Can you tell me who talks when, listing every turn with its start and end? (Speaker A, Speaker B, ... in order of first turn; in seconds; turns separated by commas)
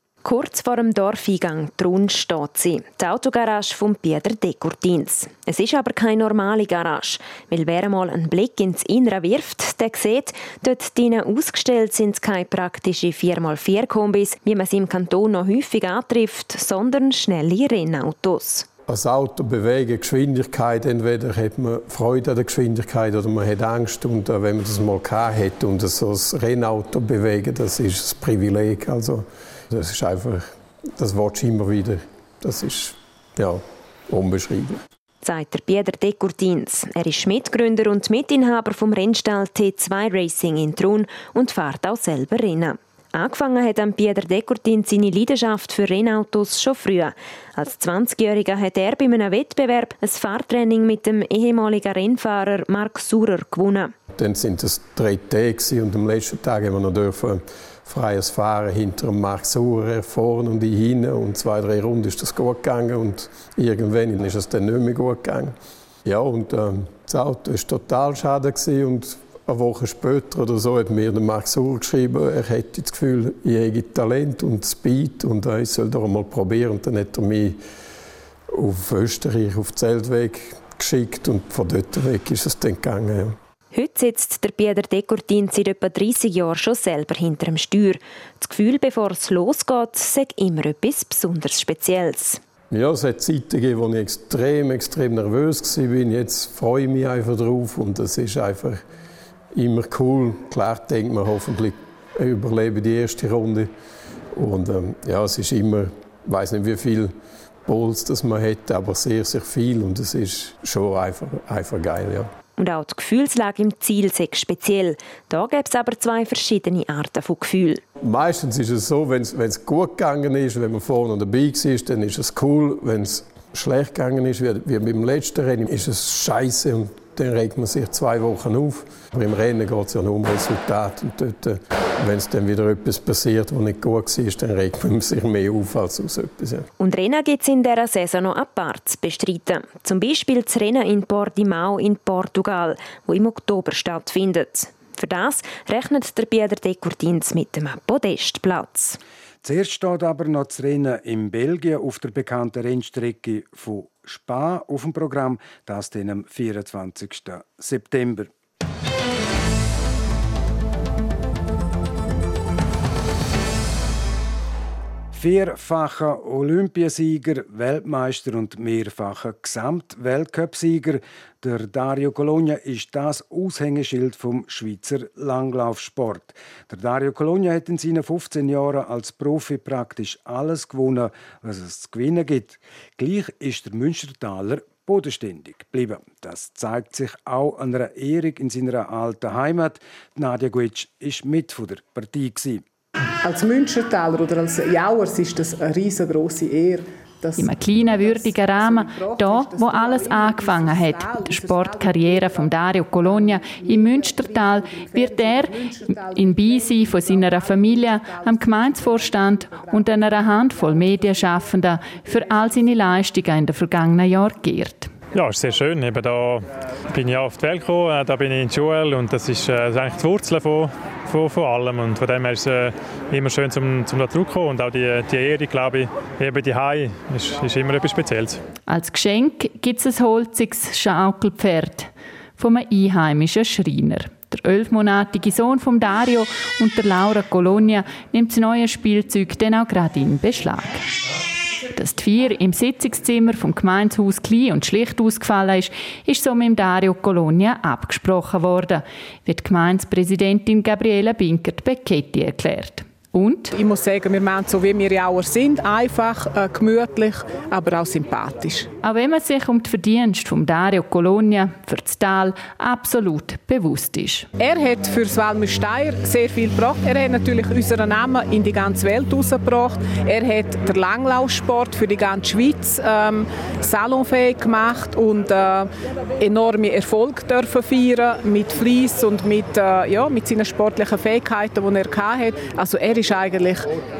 Speaker A: 0.2-18.7, Speaker B: 18.9-34.8, Speaker A: 35.2-53.9, Speaker B: 54.1-65.5, Speaker B: 66.0-77.6, Speaker B: 78.5-83.3, Speaker A: 83.7-92.4, Speaker B: 92.7-98.8, Speaker B: 99.5-103.7, Speaker B: 104.3-107.1, Speaker B: 107.7-112.3, Speaker A: 112.6-117.8, Speaker B: 118.0-136.7, Speaker A: 136.8-149.0, Speaker C: 149.4-158.3, Speaker C: 165.1-192.6, Speaker D: 193.2-202.4, Speaker E: 197.4-214.9, Speaker D: 203.2-206.7, Speaker F: 215.1-228.4, Speaker E: 228.7-240.9, Speaker E: 241.7-253.5, Speaker D: 253.5-258.7, Speaker E: 258.8-264.3, Speaker D: 264.4-283.6